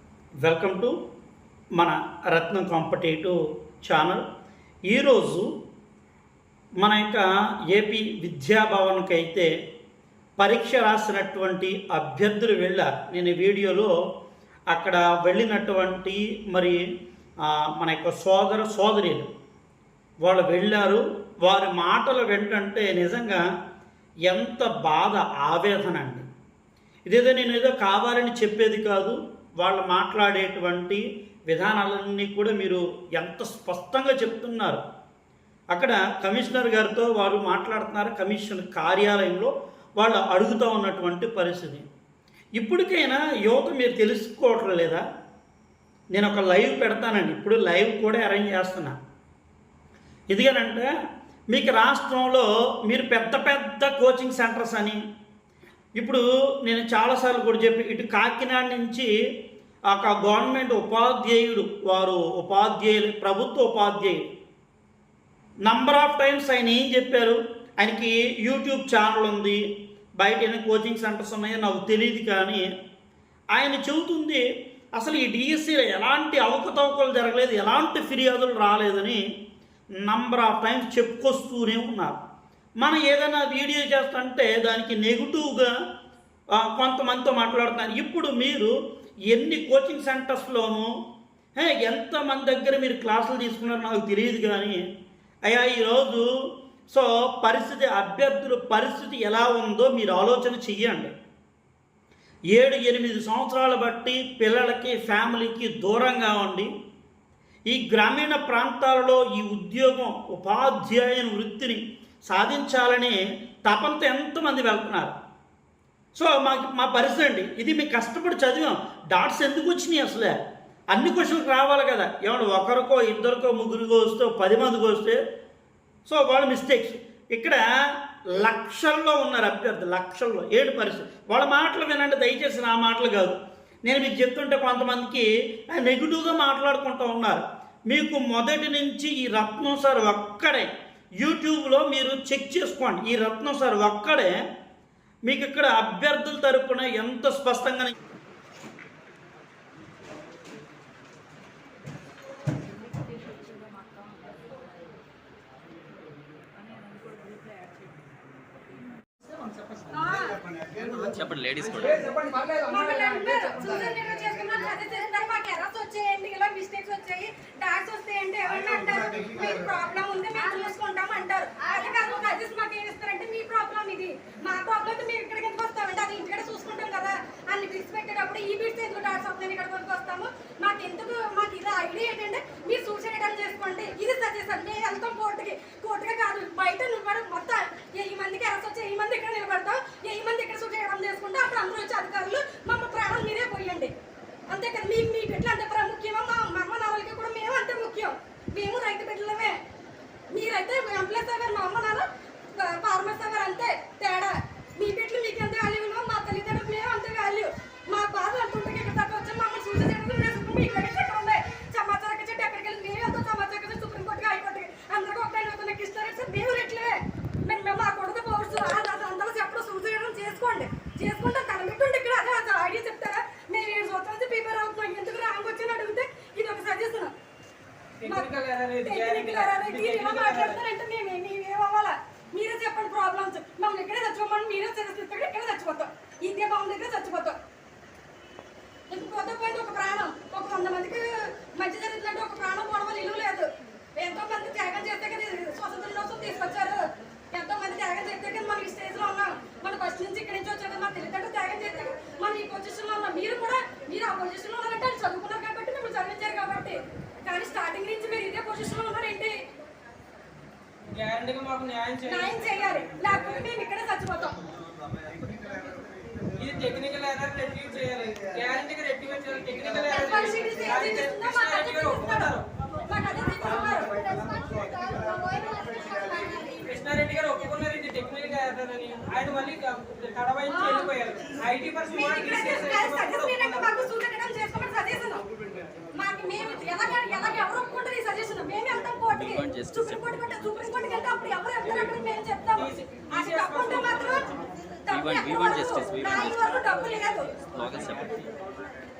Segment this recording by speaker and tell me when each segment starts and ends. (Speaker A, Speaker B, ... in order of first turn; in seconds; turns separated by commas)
Speaker A: 0.4-0.9, Speaker A: 1.8-4.2, Speaker A: 4.9-5.5, Speaker A: 6.8-9.5, Speaker A: 10.4-13.9, Speaker A: 14.7-16.8, Speaker A: 17.7-19.3, Speaker A: 20.2-23.4, Speaker A: 24.3-26.2, Speaker A: 27.1-34.8, Speaker A: 35.7-41.9, Speaker A: 42.6-45.0, Speaker A: 46.1-49.0, Speaker A: 50.3-50.9, Speaker A: 51.5-55.0, Speaker A: 56.0-59.1, Speaker A: 59.9-64.2, Speaker A: 65.7-69.6, Speaker A: 70.2-72.7, Speaker A: 73.5-74.4, Speaker A: 75.0-79.2, Speaker A: 80.0-82.2, Speaker A: 82.8-85.7, Speaker A: 86.6-88.7, Speaker A: 89.3-90.9, Speaker A: 91.6-94.8, Speaker A: 95.5-96.2, Speaker A: 96.9-101.1, Speaker A: 102.5-106.7, Speaker A: 107.7-115.1, Speaker A: 116.1-120.3, Speaker A: 120.9-125.2, Speaker A: 126.0-127.6, Speaker A: 128.4-140.7, Speaker A: 141.2-144.4, Speaker A: 145.3-147.9, Speaker B: 159.9-160.4, Speaker C: 161.0-162.1, Speaker D: 162.2-163.8, Speaker B: 162.7-193.9, Speaker B: 194.5-199.6, Speaker B: 200.3-227.1, Speaker D: 228.0-230.6, Speaker B: 228.8-237.4, Speaker B: 238.9-259.3, Speaker D: 260.9-263.5, Speaker B: 262.1-264.4, Speaker D: 266.4-272.4, Speaker B: 269.9-272.3, Speaker B: 272.9-276.6, Speaker D: 273.4-274.2, Speaker D: 276.4-283.9, Speaker B: 280.5-280.9, Speaker B: 281.9-285.2, Speaker B: 285.9-294.3, Speaker C: 289.1-290.5, Speaker D: 292.5-294.3, Speaker B: 294.9-297.3, Speaker C: 294.9-296.6, Speaker C: 297.5-298.3